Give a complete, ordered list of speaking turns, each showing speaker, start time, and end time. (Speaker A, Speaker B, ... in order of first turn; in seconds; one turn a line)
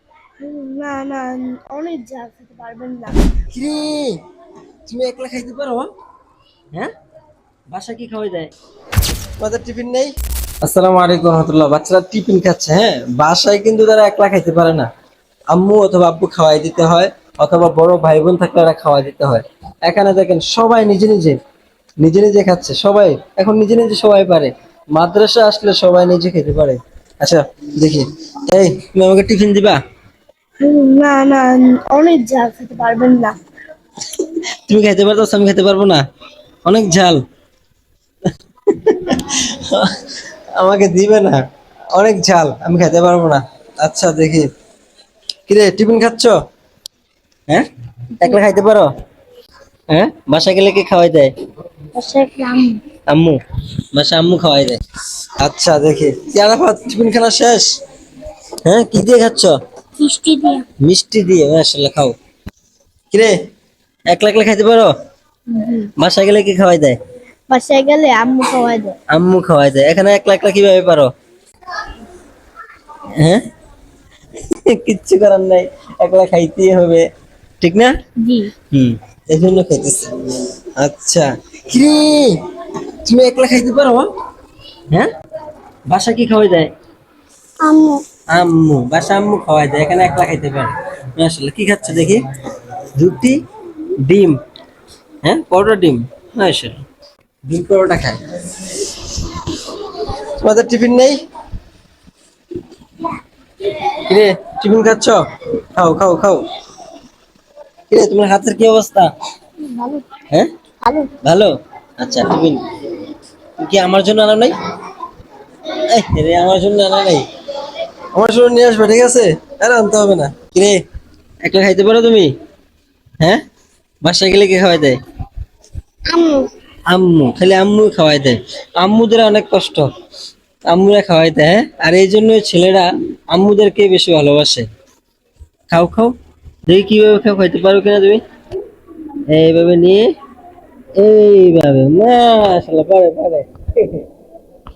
Speaker A: 0.4-3.2
Speaker B: 3.5-4.2
Speaker B: 4.9-5.9
Speaker B: 7.7-8.5
Speaker B: 9.4-14.9
Speaker B: 15.5-21.4
Speaker B: 22.0-29.8
Speaker A: 30.6-33.3
Speaker B: 34.2-36.0
Speaker B: 36.7-37.2
Speaker B: 38.7-40.0
Speaker B: 40.5-41.4
Speaker B: 41.9-44.5
Speaker B: 45.5-46.4
Speaker B: 48.2-48.9
Speaker B: 49.9-51.3
Speaker A: 51.9-52.8
Speaker B: 53.1-53.4
Speaker B: 53.9-54.8
Speaker B: 55.4-57.7
Speaker B: 58.6-59.5
Speaker A: 60.0-60.6
Speaker B: 60.8-62.1
Speaker B: 63.1-63.4
Speaker B: 64.1-64.9
Speaker A: 65.5-65.9
Speaker B: 66.0-67.0
Speaker A: 67.5-69.0
Speaker B: 69.1-71.1
Speaker B: 73.2-73.5
Speaker B: 74.5-77.1
Speaker B: 77.6-77.9
Speaker A: 78.2-78.5
Speaker B: 78.7-80.2
Speaker B: 80.8-82.4
Speaker B: 83.0-84.1
Speaker B: 85.9-86.7
Speaker A: 87.6-88.0
Speaker B: 88.3-92.2
Speaker B: 93.0-93.4
Speaker B: 94.0-94.4
Speaker B: 95.2-96.8
Speaker B: 97.5-99.4
Speaker B: 100.1-101.2
Speaker B: 103.7-105.2
Speaker B: 105.7-106.4
Speaker B: 107.9-109.1
Speaker A: 109.7-110.0
Speaker A: 110.8-111.1
Speaker B: 111.2-112.6
Speaker B: 113.6-114.5
Speaker B: 115.8-117.2
Speaker B: 118.1-120.8
Speaker B: 121.4-122.3
Speaker B: 124.0-125.0
Speaker A: 126.1-126.5
Speaker B: 126.9-129.9
Speaker B: 130.7-134.7
Speaker B: 135.7-136.1
Speaker B: 136.7-138.2
Speaker B: 139.3-140.1
Speaker B: 141.0-144.1